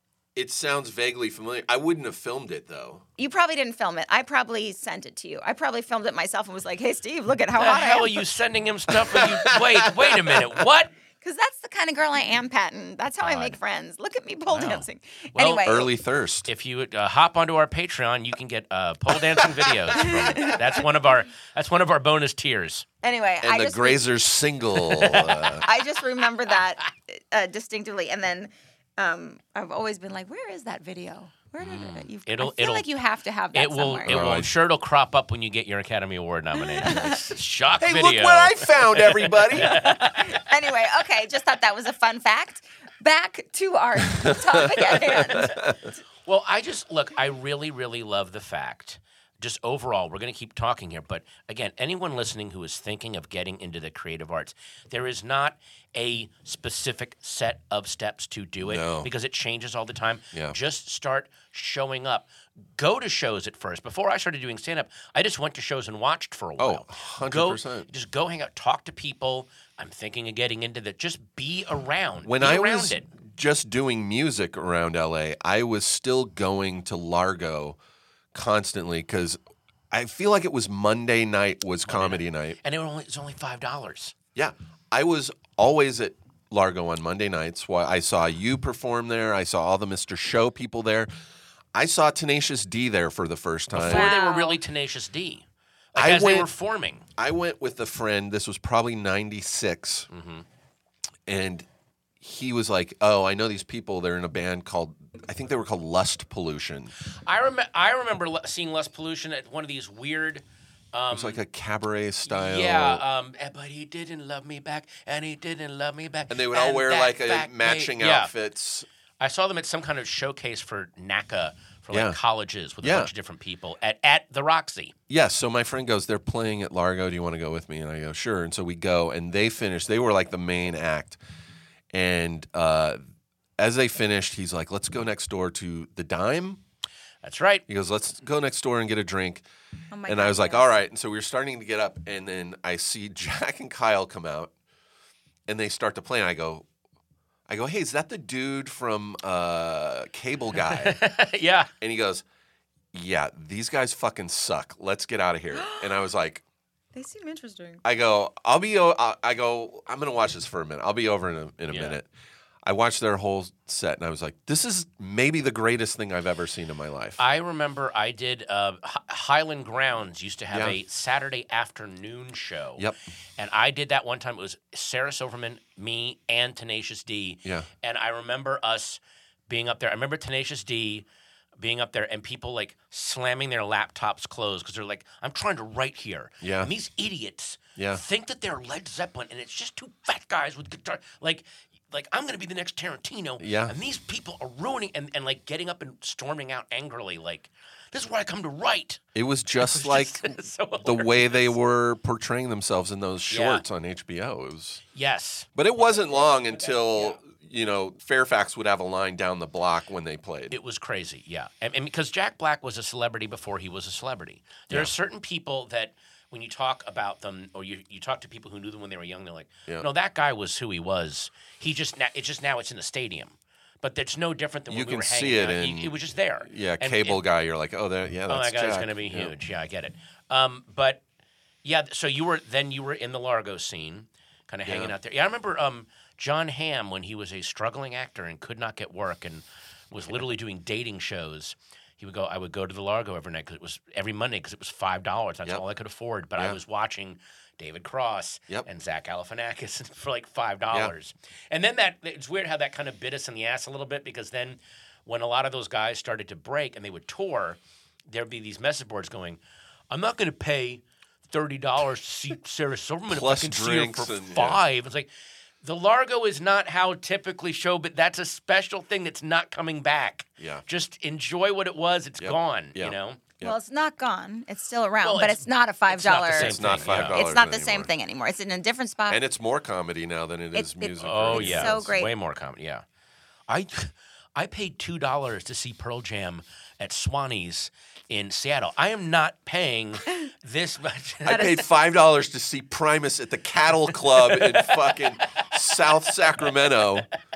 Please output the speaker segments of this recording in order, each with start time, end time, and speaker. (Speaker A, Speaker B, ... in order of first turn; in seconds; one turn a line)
Speaker A: 0.3-3.0
Speaker B: 3.2-8.2
Speaker C: 7.6-10.9
Speaker A: 9.1-10.6
Speaker B: 11.2-15.9
Speaker C: 13.2-13.6
Speaker C: 14.5-15.8
Speaker A: 15.6-16.5
Speaker C: 16.5-22.9
Speaker A: 19.4-20.5
Speaker B: 20.0-20.6
Speaker B: 23.0-24.1
Speaker A: 23.4-25.7
Speaker C: 25.0-25.5
Speaker B: 25.5-34.3
Speaker C: 31.6-32.9
Speaker C: 33.5-40.4
Speaker A: 34.1-34.5
Speaker B: 36.8-37.2
Speaker A: 37.8-39.8
Speaker B: 39.6-45.6
Speaker A: 44.1-45.8
Speaker C: 46.3-73.1
Speaker A: 58.6-59.1
Speaker A: 60.3-60.6
Speaker A: 66.6-67.9
Speaker A: 72.2-77.8
Speaker A: 78.3-79.4
Speaker A: 79.9-82.6
Speaker C: 81.9-84.2
Speaker A: 84.3-91.1
Speaker A: 91.7-94.1
Speaker C: 93.7-97.0
Speaker B: 93.8-94.6
Speaker A: 96.0-96.5
Speaker A: 97.2-100.1
Speaker C: 100.1-100.5
Speaker A: 101.3-101.7
Speaker A: 102.2-106.9
Speaker C: 107.2-111.4
Speaker A: 111.1-113.0
Speaker C: 112.3-118.3
Speaker A: 116.3-118.9
Speaker C: 119.2-125.0
Speaker A: 121.9-122.2
Speaker A: 122.8-123.1
Speaker A: 125.1-131.2
Speaker A: 131.9-133.0
Speaker A: 133.6-136.6
Speaker C: 137.2-137.6
Speaker A: 137.7-139.4
Speaker B: 139.9-140.7
Speaker A: 140.1-144.5
Speaker A: 145.5-146.7
Speaker A: 147.5-151.0
Speaker C: 150.7-151.7
Speaker A: 151.8-152.2
Speaker A: 152.9-156.4
Speaker B: 155.5-156.0
Speaker B: 156.9-157.8
Speaker A: 157.8-162.1
Speaker C: 161.7-162.0
Speaker A: 162.7-167.2
Speaker C: 167.2-172.8
Speaker A: 170.5-170.8
Speaker C: 173.4-181.1
Speaker C: 181.6-199.0
Speaker A: 186.4-186.7
Speaker A: 187.8-188.0
Speaker A: 193.4-193.8
Speaker A: 199.2-200.3
Speaker C: 199.6-201.5
Speaker A: 200.8-204.8
Speaker C: 203.3-203.6
Speaker C: 204.9-207.2
Speaker A: 205.6-210.6
Speaker C: 210.5-227.2
Speaker A: 224.7-229.3
Speaker C: 228.3-231.0
Speaker C: 231.6-259.4
Speaker A: 234.7-234.9
Speaker C: 259.9-265.1
Speaker A: 263.1-264.6
Speaker C: 265.6-273.2
Speaker A: 272.2-273.6
Speaker B: 273.4-279.2
Speaker C: 275.0-277.2
Speaker A: 276.3-277.9
Speaker A: 279.1-281.9
Speaker B: 280.6-282.1
Speaker C: 281.0-282.8
Speaker C: 283.5-291.6
Speaker A: 291.2-297.1
Speaker C: 294.1-295.5